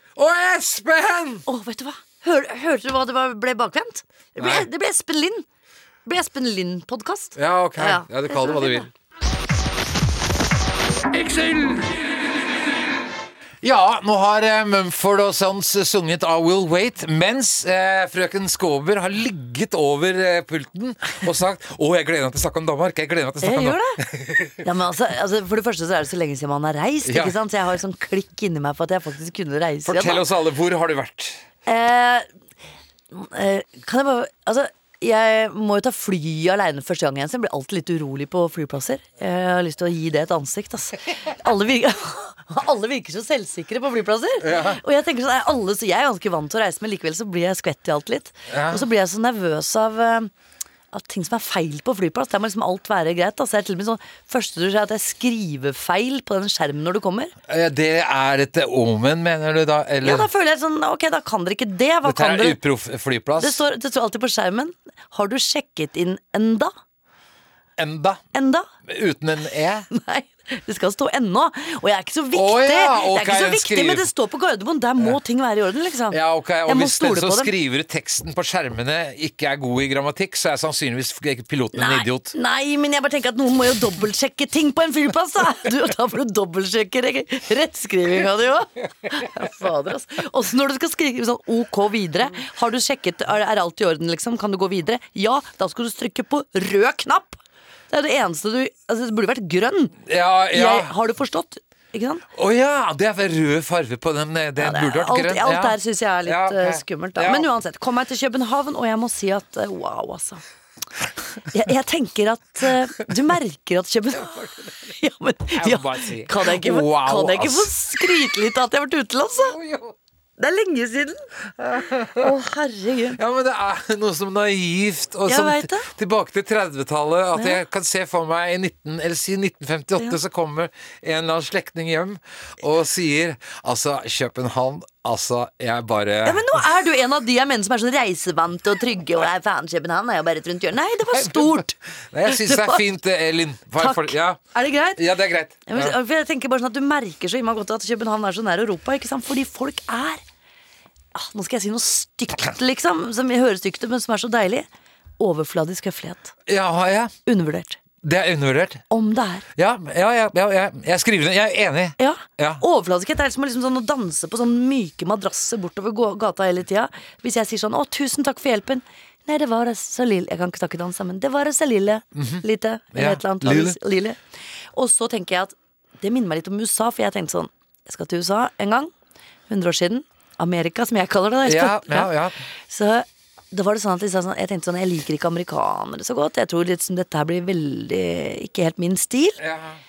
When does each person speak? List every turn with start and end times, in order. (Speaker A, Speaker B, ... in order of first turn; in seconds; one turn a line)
Speaker A: 0.1-1.4
Speaker B: 1.4-5.4
Speaker A: 4.4-4.7
Speaker B: 6.0-8.9
Speaker A: 7.3-8.9
Speaker A: 11.2-11.7
Speaker A: 13.6-24.6
Speaker B: 23.4-24.0
Speaker B: 24.6-30.2
Speaker A: 27.0-27.4
Speaker A: 29.8-31.4
Speaker B: 31.6-32.3
Speaker B: 33.1-50.3
Speaker A: 44.4-44.8
Speaker A: 48.5-48.8
Speaker B: 50.9-57.3
Speaker A: 57.5-60.3
Speaker B: 60.0-62.6
Speaker A: 62.0-63.6
Speaker B: 63.4-66.7
Speaker A: 67.8-68.2
Speaker B: 68.3-68.7
Speaker A: 68.8-69.9
Speaker B: 69.9-77.5
Speaker A: 72.3-74.1
Speaker A: 76.1-82.3
Speaker B: 81.7-97.4
Speaker B: 97.9-100.0
Speaker A: 100.0-100.9
Speaker B: 100.5-102.2
Speaker A: 102.3-107.5
Speaker B: 104.6-110.4
Speaker B: 111.5-119.6
Speaker A: 114.2-114.7
Speaker A: 115.5-118.1
Speaker A: 119.3-120.0
Speaker B: 120.4-121.2
Speaker A: 121.6-122.3
Speaker B: 122.2-123.2
Speaker A: 123.2-136.6
Speaker B: 125.3-125.9
Speaker B: 127.3-127.6
Speaker B: 136.2-141.7
Speaker A: 141.1-144.4
Speaker B: 142.3-142.8
Speaker B: 143.8-145.0
Speaker A: 144.9-146.0
Speaker B: 145.7-150.2
Speaker B: 151.1-154.7
Speaker B: 155.2-156.3
Speaker A: 156.5-157.1
Speaker B: 157.2-157.8
Speaker A: 158.0-158.8
Speaker B: 158.9-159.4
Speaker A: 159.6-162.6
Speaker B: 162.0-174.2
Speaker A: 172.1-173.8
Speaker B: 174.7-178.9
Speaker B: 179.5-182.1
Speaker A: 181.4-182.3
Speaker B: 182.7-189.4
Speaker A: 189.4-189.8